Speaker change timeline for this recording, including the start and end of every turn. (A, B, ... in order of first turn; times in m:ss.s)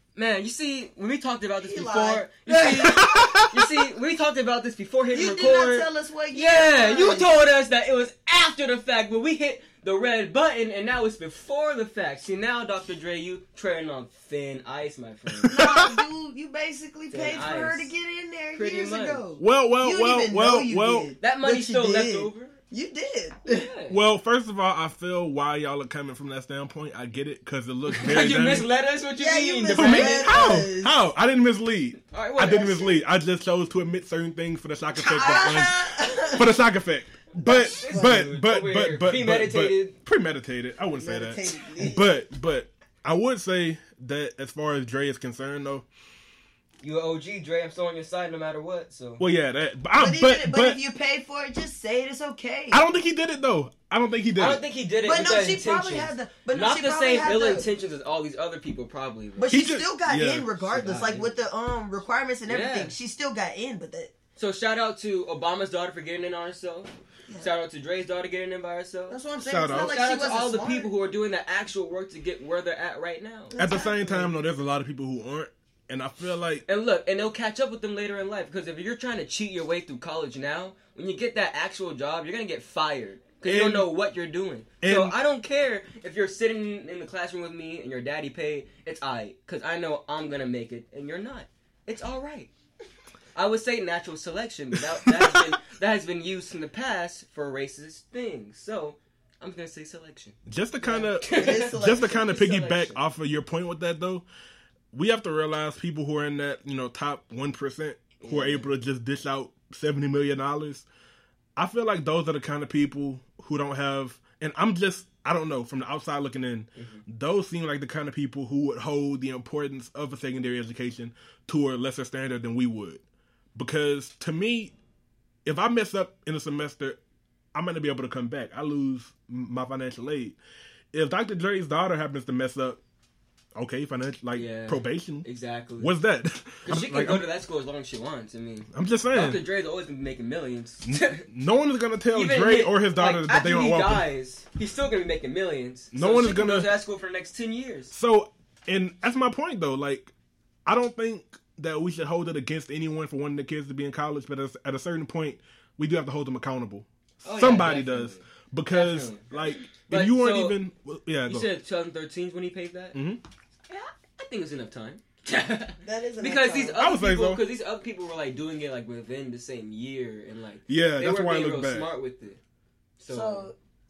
0:00.2-0:15.6 A
0:01.6-0:03.3 B
0:02.7-0:03.6 C
0:05.1-0:07.4 B
0:15.4-0:16.0 C
0:15.5-0:23.7 B
0:17.1-0:17.9 A
0:18.5-0:19.2 A
0:19.4-0:21.1 C
0:21.2-0:22.6 A
0:23.5-0:24.0 A
0:23.9-0:28.7 C
0:27.9-0:30.4 A
0:29.2-0:31.0 B
0:29.7-0:45.9 C
0:32.1-0:33.0 A
0:35.0-0:36.6 B
0:37.4-0:40.0 A
0:37.4-0:38.2 B
0:41.0-0:42.2 B
0:46.8-0:49.2 A
0:49.2-0:50.8 C
0:50.0-0:52.8 B
0:52.7-0:54.6 C
0:54.4-0:59.6 A
0:55.0-0:57.7 B
0:59.4-1:04.1 B
0:59.5-1:01.2 C
1:00.8-1:01.3 A
1:02.5-1:02.9 A
1:04.4-1:13.6 A
1:09.1-1:10.9 B
1:09.4-1:10.0 C
1:13.5-1:14.3 B
1:13.6-1:16.6 C
1:16.7-1:32.5 A
1:23.4-1:23.9 C
1:24.8-1:25.2 C
1:33.4-1:40.4 A
1:35.0-1:35.5 C
1:40.5-1:44.3 C
1:40.8-1:42.5 B
1:41.2-1:43.0 A
1:44.9-1:50.9 C
1:48.2-1:48.7 A
1:51.6-2:03.0 C
1:56.8-1:57.0 A
2:03.6-2:04.7 C
2:05.4-2:07.0 C
2:07.5-2:10.4 C
2:10.9-2:12.8 C
2:13.6-2:15.3 C
2:14.4-2:16.0 A
2:15.8-2:17.3 C
2:16.6-2:21.2 A
2:18.7-2:19.4 C
2:20.8-2:24.1 C
2:22.1-2:27.9 A
2:25.9-2:26.8 C
2:27.9-2:30.1 C
2:30.7-2:41.5 C
2:37.2-2:39.4 A
2:39.9-2:40.6 A
2:41.3-2:43.0 A
2:42.9-2:43.2 C
2:43.7-2:52.4 A
2:45.8-2:46.8 B
2:46.8-2:47.4 C
2:50.7-2:51.9 C
2:53.0-2:53.5 A
2:53.1-2:53.6 B